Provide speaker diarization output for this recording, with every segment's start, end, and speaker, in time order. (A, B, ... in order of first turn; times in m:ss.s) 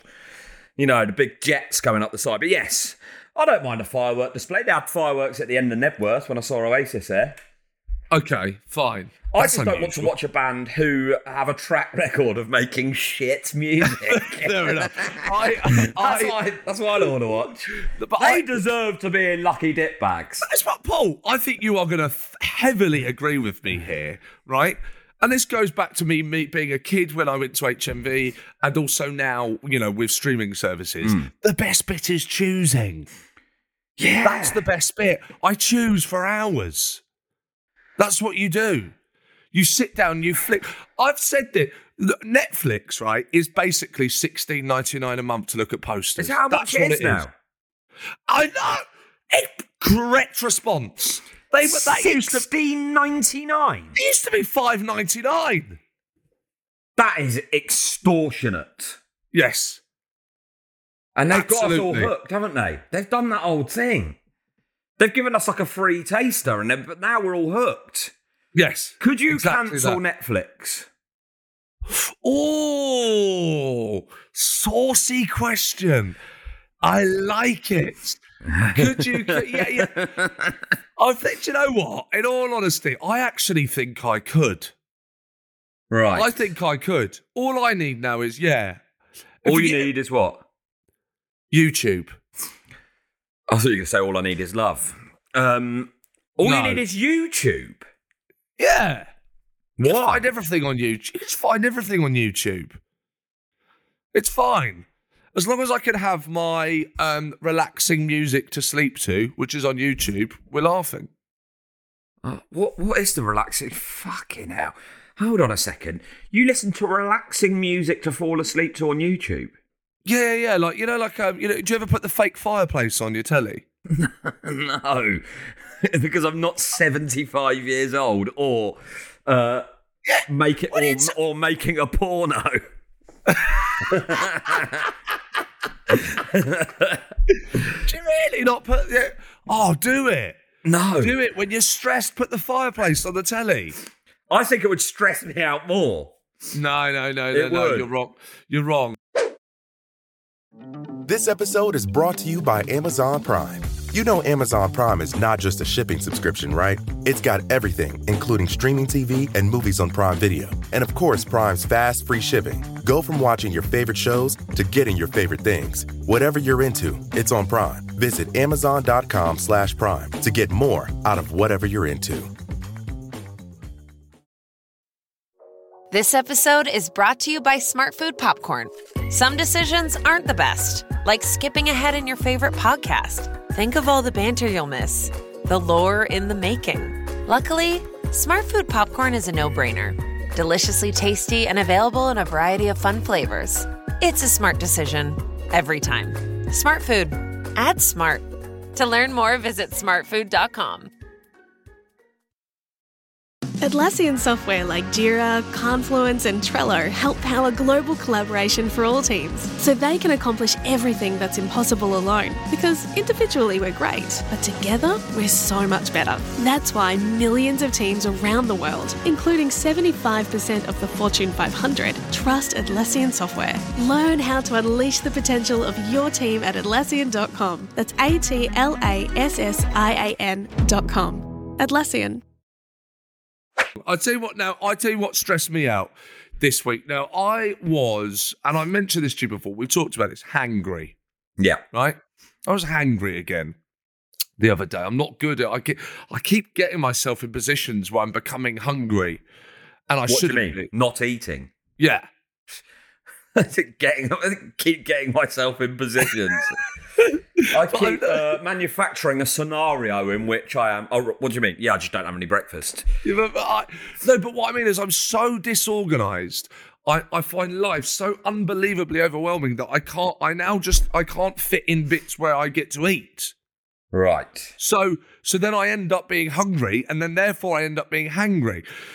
0:00.8-0:07.4 A
0:08.1-0:10.1 B
0:09.3-0:17.6 A
0:13.8-0:16.4 B
0:17.8-0:18.6 B
0:18.2-0:20.4 A
0:20.4-0:33.1 B
0:34.0-0:34.6 A
0:34.2-0:37.0 B
0:38.0-0:38.9 B
0:39.5-0:47.2 B
0:46.2-0:47.3 A
0:48.3-0:52.4 B
0:51.6-0:53.9 A
0:54.0-0:55.8 B
0:57.0-0:59.0 A
0:59.3-0:59.8 B
1:01.2-1:04.2 A
1:01.3-1:02.1 B
1:05.0-1:08.1 A
1:08.5-1:10.0 B
1:09.0-1:10.9 A
1:11.9-1:16.2 B
1:16.8-1:18.2 B
1:18.5-1:20.5 A
1:18.8-1:20.0 B
1:21.0-1:24.7 B
1:25.9-1:26.3 A
1:26.1-1:28.8 B
1:29.4-1:29.9 B
1:29.4-1:30.4 A
1:31.5-1:32.2 B
1:33.5-1:37.8 A
1:36.4-1:36.8 B
1:38.6-1:39.1 B
1:39.8-1:40.2 A
1:40.0-1:42.8 B
1:44.1-1:51.1 B
1:52.2-1:59.5 A
2:00.0-2:03.6 B
2:03.9-2:05.2 A
2:05.8-2:09.6 A
2:10.0-2:11.1 B
2:10.3-2:12.6 A
2:13.3-2:14.0 B
2:13.9-2:14.9 A
2:15.9-2:17.0 A
2:17.8-2:20.4 B
2:20.6-2:21.1 A
2:21.0-2:23.7 B
2:24.3-2:26.1 A
2:26.5-2:29.0 B
2:27.3-2:27.9 A
2:31.0-2:52.3 C
2:55.9-3:20.9 D
3:23.6-3:52.2 E
3:53.8-4:00.9 B
4:01.7-4:03.5 B
4:04.4-4:09.2 B
4:09.9-4:10.7 B
4:10.1-4:11.5 A
4:11.8-4:12.1 B
4:13.4-4:16.5 A
4:16.3-4:18.3 B
4:17.5-4:22.8 A
4:23.0-4:33.3 B
4:33.9-4:34.5 A
4:34.6-4:38.6 B